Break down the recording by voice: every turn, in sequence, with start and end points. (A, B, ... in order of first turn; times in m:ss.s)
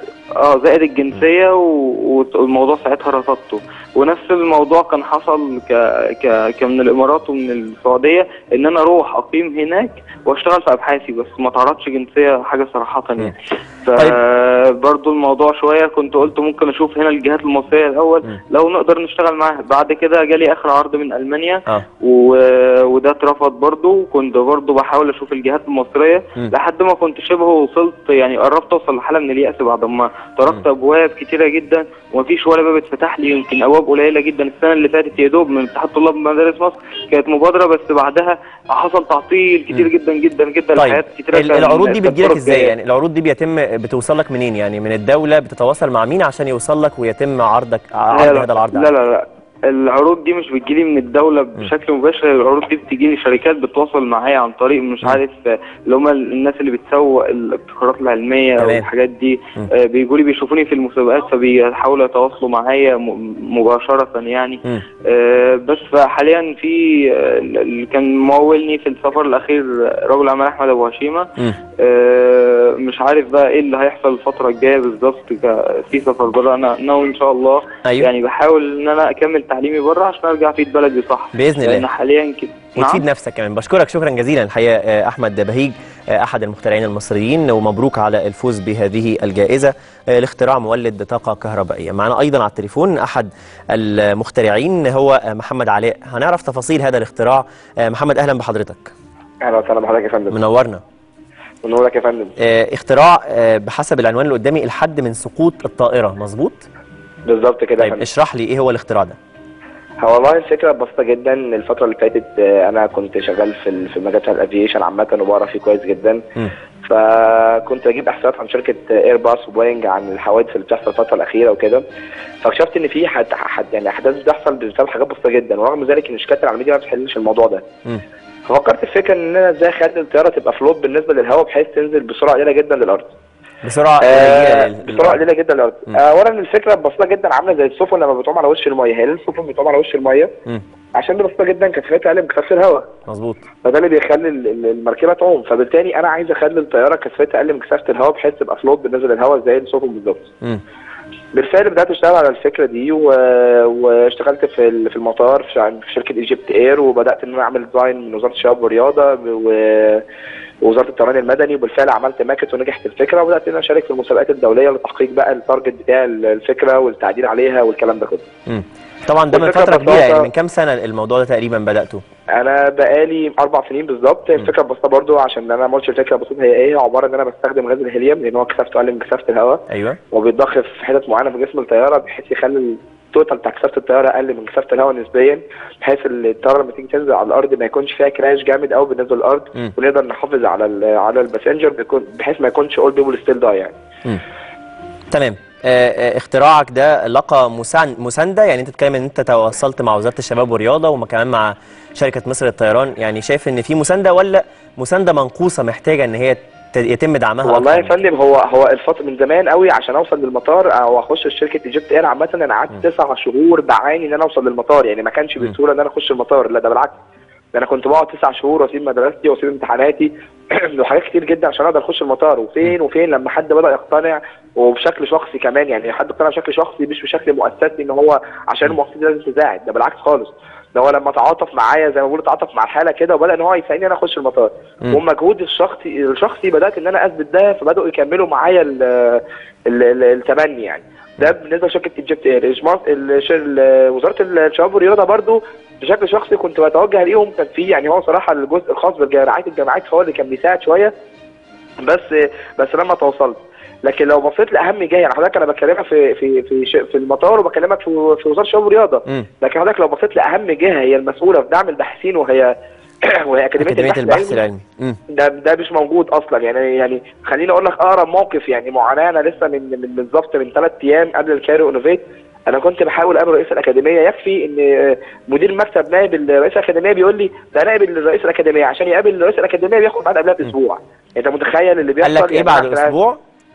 0:00.3-0:42.7 A
0:40.8-0:48.9 B
0:48.1-1:23.0 A
0:58.6-0:58.9 B
1:17.8-1:18.1 B
1:21.3-1:21.8 B
1:22.8-1:38.9 B
1:39.4-1:40.4 C
1:40.3-1:40.8 B
1:41.6-1:42.3 C
1:42.4-1:46.6 B
1:47.3-1:48.0 C
1:47.8-1:49.2 B
1:50.0-1:56.2 C
1:56.8-2:01.8 C
2:02.4-2:07.7 C
2:08.5-2:13.1 C
2:13.6-2:15.2 B
2:14.0-2:20.3 C
2:20.9-2:22.8 C
2:23.1-2:23.4 B
2:23.6-2:30.3 C
2:31.3-2:40.0 C
2:40.6-2:48.3 C
2:48.5-2:52.0 B
2:49.3-2:50.3 C
2:52.3-3:13.8 C
2:59.7-3:00.0 B
3:15.1-3:28.0 B
3:27.4-3:37.0 C
3:37.5-4:10.9 C
4:11.8-4:22.5 C
4:23.0-4:24.4 C
4:23.6-4:25.0 B
4:25.1-4:42.9 C
4:42.0-4:43.2 B